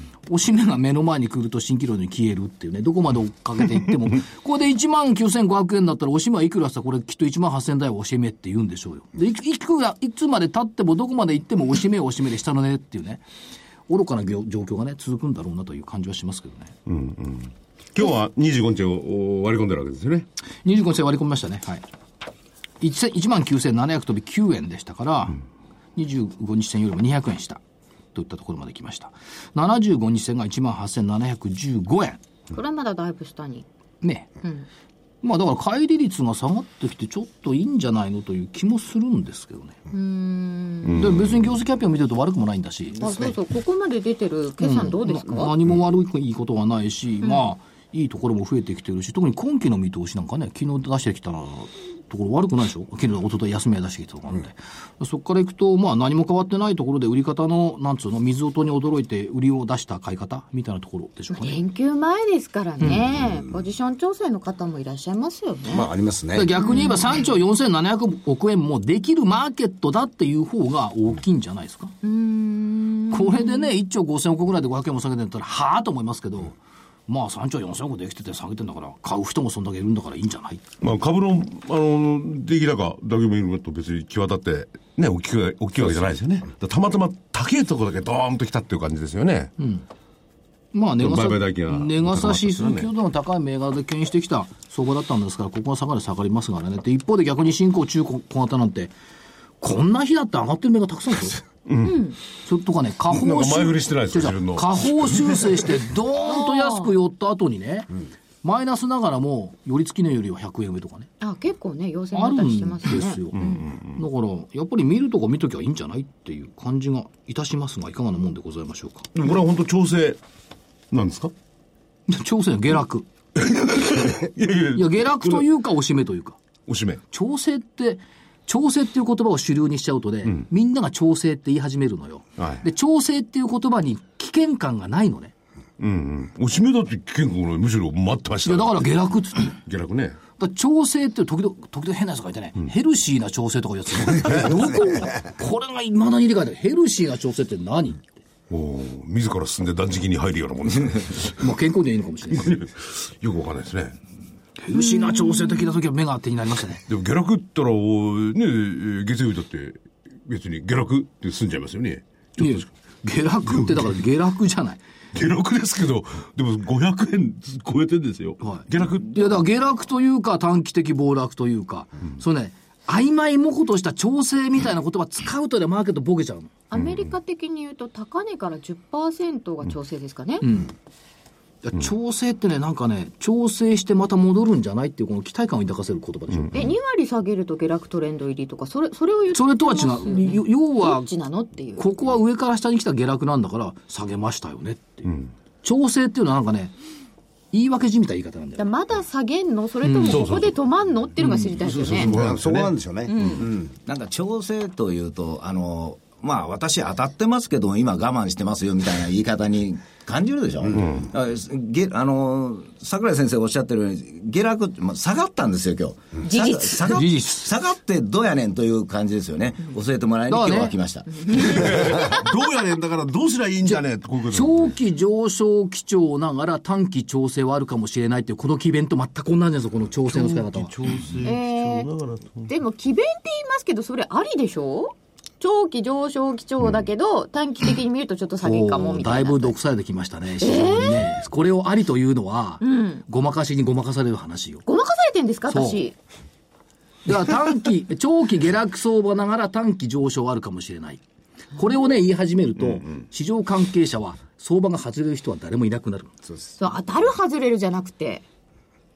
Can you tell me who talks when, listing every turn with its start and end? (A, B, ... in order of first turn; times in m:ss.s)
0:00.3-0:13.2 A
0:13.9-0:16.7 A
0:16.9-0:20.3 B
0:20.6-0:21.8 A
0:22.8-0:25.4 A
0:26.0-0:27.6 A
0:28.2-0:32.2 A
0:32.5-0:33.7 C
0:34.0-0:34.3 A
0:35.2-0:39.8 A
0:39.9-0:41.1 C
0:40.9-0:41.4 B
0:40.9-0:43.3 A
0:43.0-0:45.6 C
0:44.6-1:01.6 A
0:47.2-0:47.5 C
1:01.4-1:05.9 C
1:05.7-1:06.5 D
1:06.3-1:11.9 A
1:06.6-1:07.2 C
1:12.0-1:13.7 C
1:13.1-1:16.6 A
1:17.1-1:20.6 A
1:20.8-1:29.5 B
1:29.6-1:29.8 A
1:30.7-1:38.9 A
1:31.0-1:32.9 B
1:39.6-1:41.4 A
1:41.7-1:42.1 B
1:41.8-1:42.2 C
1:42.4-1:47.9 A
1:43.1-1:45.6 B
1:46.2-1:46.9 C
1:48.4-1:51.1 A
1:51.2-1:53.6 C
1:52.1-1:59.1 A
1:53.4-1:54.0 B
1:59.1-2:00.2 B
2:00.9-2:01.3 B
2:02.1-2:03.1 A
2:03.4-2:05.5 B
2:04.8-2:06.4 A
2:06.7-2:07.0 B
2:07.1-2:15.3 A
2:12.4-2:12.6 B
2:15.8-2:18.9 B
2:18.4-2:19.6 A
2:19.6-2:20.2 B
2:20.4-2:28.2 A
2:28.5-2:31.4 B
2:31.4-2:32.6 A
2:32.3-2:34.0 B
2:34.6-2:36.8 A
2:34.8-2:35.7 C
2:36.9-2:42.7 B
2:42.4-2:44.8 A
2:43.5-2:43.9 B
2:45.1-2:49.4 B
2:48.4-2:56.5 A
2:56.7-3:00.4 C
2:56.8-2:57.1 B
3:00.4-3:00.7 A
3:01.6-3:06.7 A
3:06.5-3:11.8 C
3:09.3-3:11.1 A
3:11.8-3:16.7 A
3:17.5-3:18.7 A
3:18.6-3:22.1 C
3:19.8-3:20.3 A
3:20.0-3:20.6 B
3:21.2-3:21.5 A
3:21.6-3:22.7 B
3:22.0-3:23.7 D
3:23.1-3:23.4 C
3:23.8-3:41.6 E
3:30.7-3:31.1 B
3:36.3-3:37.0 C
3:36.9-3:37.5 A
3:40.3-3:40.8 A
3:41.2-3:42.2 C
3:41.3-3:44.7 B
3:43.7-3:50.7 A
3:50.1-3:52.5 B
3:51.2-3:51.9 C
3:52.5-3:59.6 C
3:58.4-4:04.6 A
4:00.4-4:01.1 C
4:02.6-4:03.0 C
4:04.7-4:06.0 C
4:05.5-4:05.8 A
4:07.1-4:11.0 A
4:11.6-4:16.2 A
4:16.6-4:18.2 C